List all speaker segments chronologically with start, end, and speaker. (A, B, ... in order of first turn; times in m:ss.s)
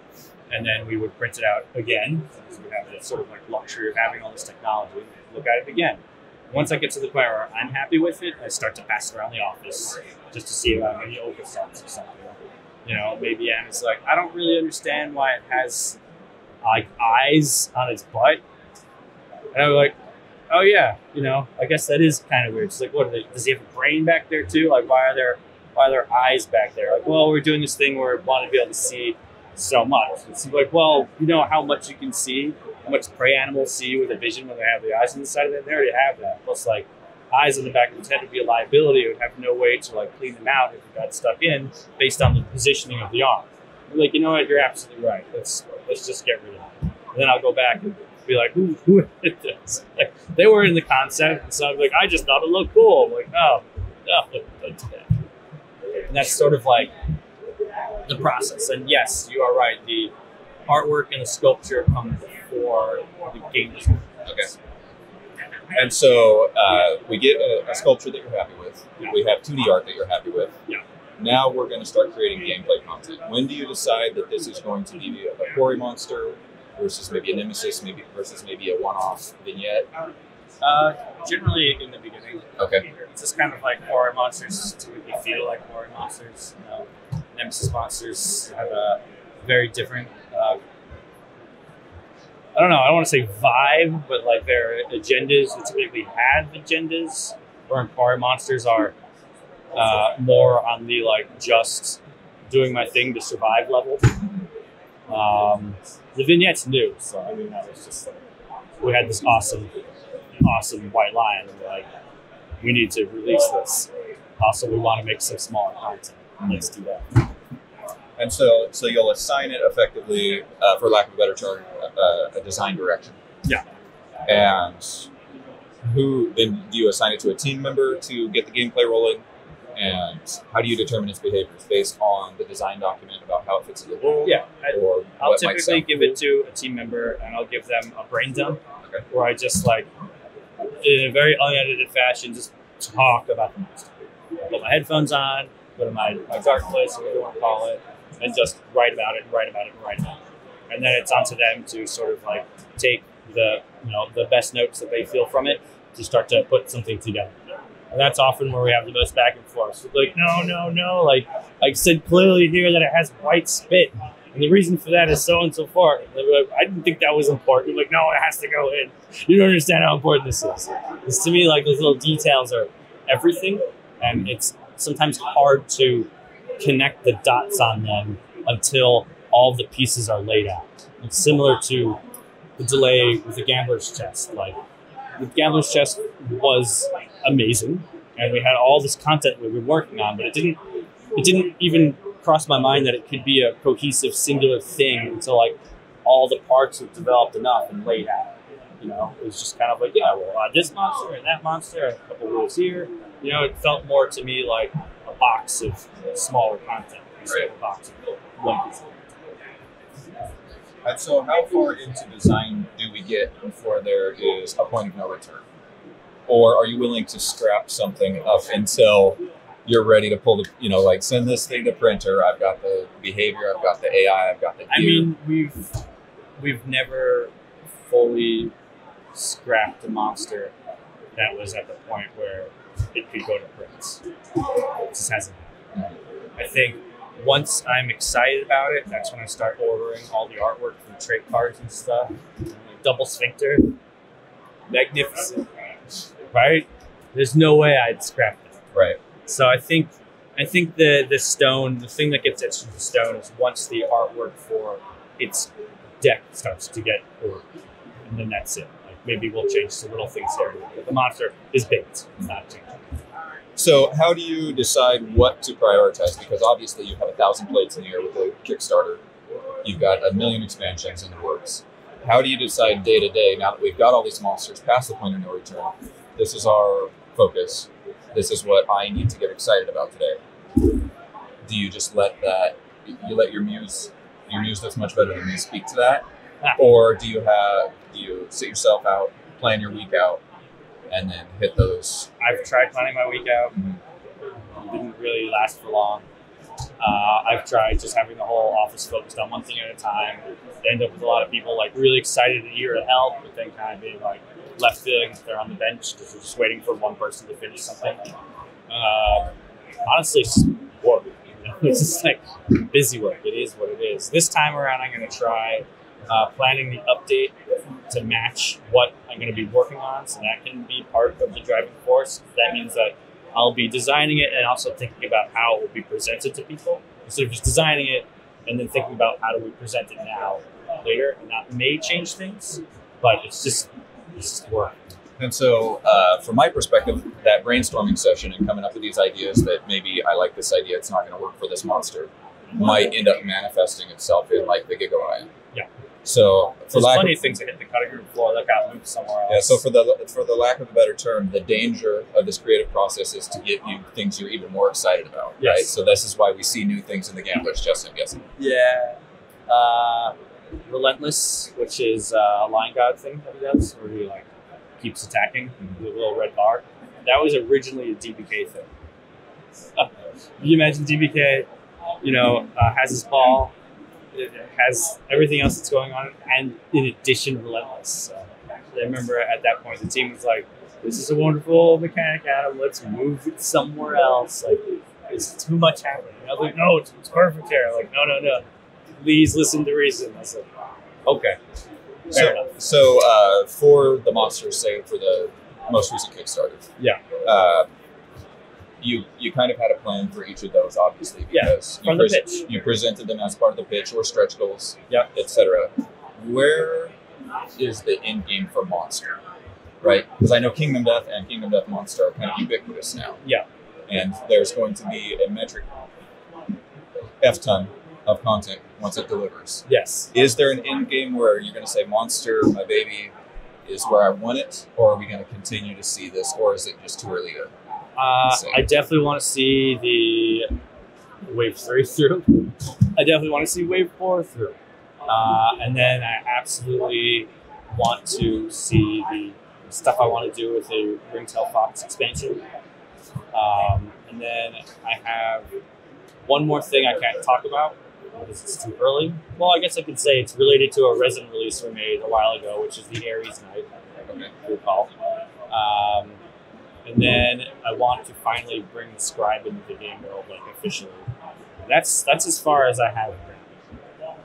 0:00.5-0:16.0 A
0:16.6-0:18.4 A
0:19.5-0:20.0 A
0:20.5-0:55.2 A
0:56.1-0:56.9 A
0:58.1-1:00.1 A
1:00.7-1:04.5 A
1:05.7-1:10.6 B
1:11.2-1:19.9 B
1:20.6-1:30.6 A
1:22.6-1:22.8 B
1:32.6-1:39.0 A
1:39.7-1:44.2 A
1:45.1-1:48.2 A
1:48.8-1:49.8 A
1:50.4-1:51.9 A
1:52.6-1:57.2 A
1:58.2-2:03.2 B
2:04.3-2:05.1 B
2:05.8-2:09.2 B
2:09.8-2:16.2 B
2:14.2-2:19.9 A
2:20.8-2:23.9 A
2:24.5-2:37.4 A
2:37.9-3:02.0 A
3:02.6-3:04.6 A
3:05.2-3:10.6 A
3:11.2-3:28.9 A
3:30.8-3:35.4 B
3:36.3-3:45.1 B
3:44.7-3:45.7 A
3:46.4-3:47.3 A
3:47.8-3:48.5 A
3:49.2-3:50.5 A
3:51.2-3:54.0 A
3:54.9-3:55.5 A
3:56.4-4:03.8 A
4:04.7-4:05.5 A
4:06.3-4:08.6 A
4:08.7-4:09.0 B
4:09.3-4:17.5 A
4:18.1-4:22.8 A
4:23.6-4:29.0 B
4:29.6-4:40.2 B
4:41.4-4:46.0 B
4:46.4-4:46.7 A
4:46.6-4:50.2 B
4:50.9-4:52.1 B
4:52.2-4:53.6 A
4:53.6-4:53.8 B
4:54.6-4:56.0 A
4:56.8-5:08.1 A
5:08.7-5:09.3 A
5:09.9-5:17.3 A
5:17.9-5:34.8 A
5:35.2-5:45.3 B
5:46.0-5:47.3 B
5:46.7-5:49.6 A
5:49.3-5:58.3 B
5:55.4-5:55.7 A
5:58.4-6:00.2 A
6:00.7-6:04.3 A
6:04.8-6:08.7 A
6:09.8-6:11.5 A
6:12.0-6:13.5 A
6:14.1-6:28.5 A
6:29.0-6:30.4 A
6:31.1-6:31.4 A
6:32.1-6:32.5 A
6:32.1-6:36.7 B
6:37.2-6:37.7 B
6:38.8-6:46.9 B
6:41.3-6:42.5 A
6:47.6-6:49.2 B
6:49.8-6:53.2 B
6:53.9-6:55.7 B
6:57.2-7:03.1 B
6:59.7-7:00.1 A
7:03.6-7:07.5 B
7:08.0-7:10.5 A
7:08.2-7:08.6 B
7:11.3-7:22.4 A
7:23.3-7:25.5 A
7:26.2-7:33.7 A
7:34.3-7:34.9 A
7:35.5-7:36.2 A
7:36.8-7:41.1 A
7:41.7-7:43.5 A